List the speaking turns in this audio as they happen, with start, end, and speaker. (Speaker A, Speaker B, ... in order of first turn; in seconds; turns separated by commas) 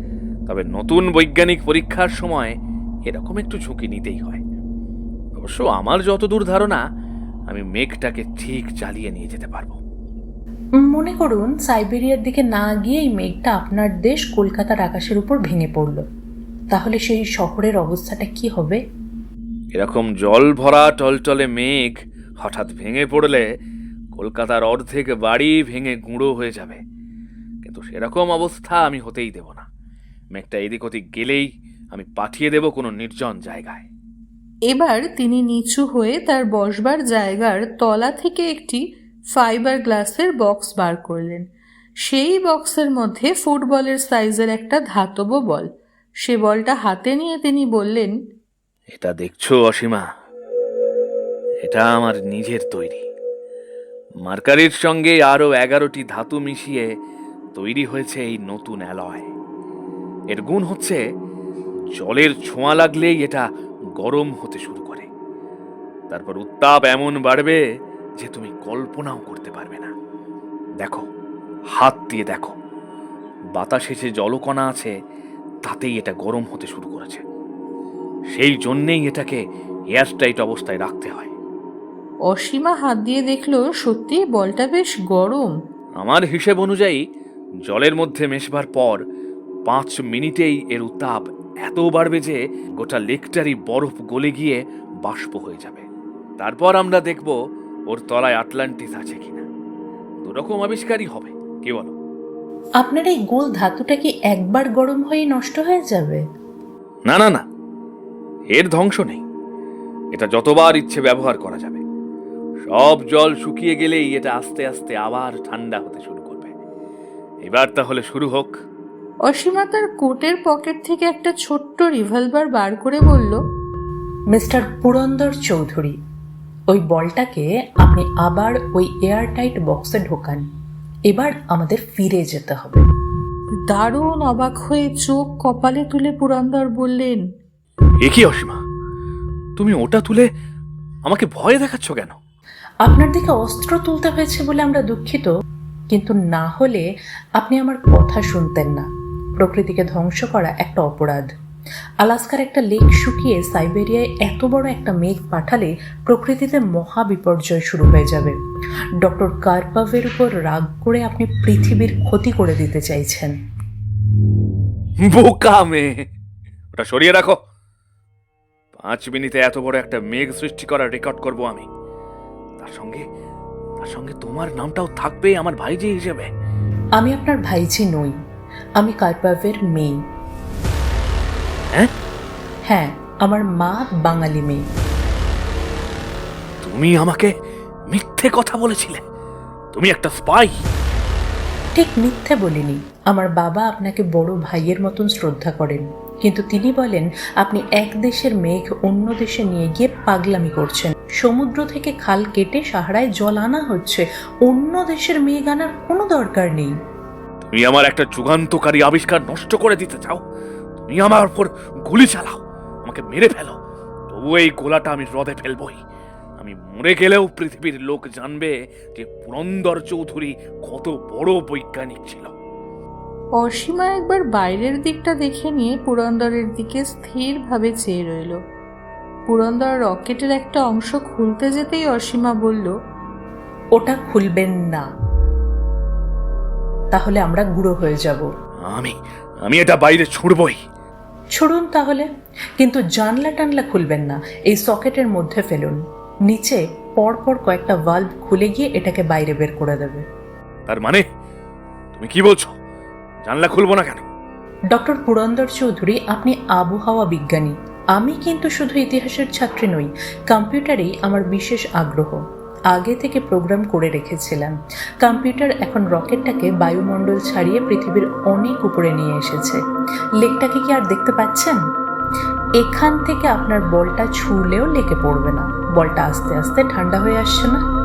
Speaker A: 0.5-2.6, Speaker A: 3.1-4.4, Speaker A: 5.4-6.8, Speaker A: 7.5-9.8, Speaker B: 10.8-16.0, Speaker B: 16.7-18.8, Speaker A: 19.7-23.5, Speaker A: 24.1-26.8, Speaker A: 27.6-29.7, Speaker A: 30.3-33.9, Speaker C: 34.7-38.8, Speaker C: 39.4-41.5, Speaker C: 42.0-45.7, Speaker C: 46.2-48.2, Speaker A: 48.9-50.1, Speaker A: 51.6-53.1, Speaker A: 54.2-56.9, Speaker A: 57.5-59.3, Speaker A: 60.3-61.0, Speaker A: 62.0-63.5, Speaker A: 64.0-65.1, Speaker A: 66.1-67.6, Speaker A: 68.2-69.9, Speaker A: 70.8-71.1, Speaker A: 71.8-72.5, Speaker A: 73.5-74.9, Speaker A: 75.6-77.2, Speaker A: 78.3-79.4, Speaker A: 79.9-81.3, Speaker C: 82.3-85.5, Speaker A: 86.0-87.0, Speaker A: 87.7-89.0, Speaker A: 89.7-95.8, Speaker A: 96.4-97.4, Speaker A: 97.9-99.5, Speaker A: 100.2-101.9, Speaker B: 102.8-106.2, Speaker A: 107.1-107.4, Speaker A: 108.5-109.2, Speaker A: 110.1-111.8, Speaker A: 112.6-116.5, Speaker A: 117.5-118.6, Speaker C: 119.3-123.4, Speaker B: 124.3-126.0, Speaker B: 126.7-130.4, Speaker B: 131.1-132.8, Speaker C: 133.7-137.3, Speaker A: 138.0-138.6, Speaker A: 139.6-140.3, Speaker A: 141.0-142.2, Speaker B: 142.8-145.3, Speaker B: 145.9-146.8, Speaker B: 147.4-148.9, Speaker B: 149.4-151.3, Speaker B: 152.0-158.4, Speaker B: 159.0-163.3, Speaker A: 165.0-166.1, Speaker A: 166.8-167.4, Speaker A: 168.8-171.7, Speaker A: 172.6-173.1, Speaker A: 173.8-176.3, Speaker B: 177.0-178.1, Speaker B: 178.8-179.9, Speaker B: 182.7-184.6, Speaker A: 186.6-187.3, Speaker A: 187.9-189.0, Speaker A: 189.7-190.7, Speaker B: 191.8-206.7, Speaker A: 207.4-210.2, Speaker A: 210.8-213.6, Speaker A: 214.1-215.8, Speaker A: 216.4-222.3, Speaker C: 223.4-228.4, Speaker C: 229.3-232.7, Speaker B: 233.8-234.9, Speaker B: 236.9-238.3, Speaker A: 238.6-240.6, Speaker B: 241.3-242.1, Speaker B: 242.6-250.0, Speaker A: 250.7-251.1, Speaker A: 251.9-252.5, Speaker A: 253.2-254.1, Speaker B: 254.7-262.2, Speaker B: 262.7-269.6, Speaker B: 270.2-271.6, Speaker B: 272.6-277.6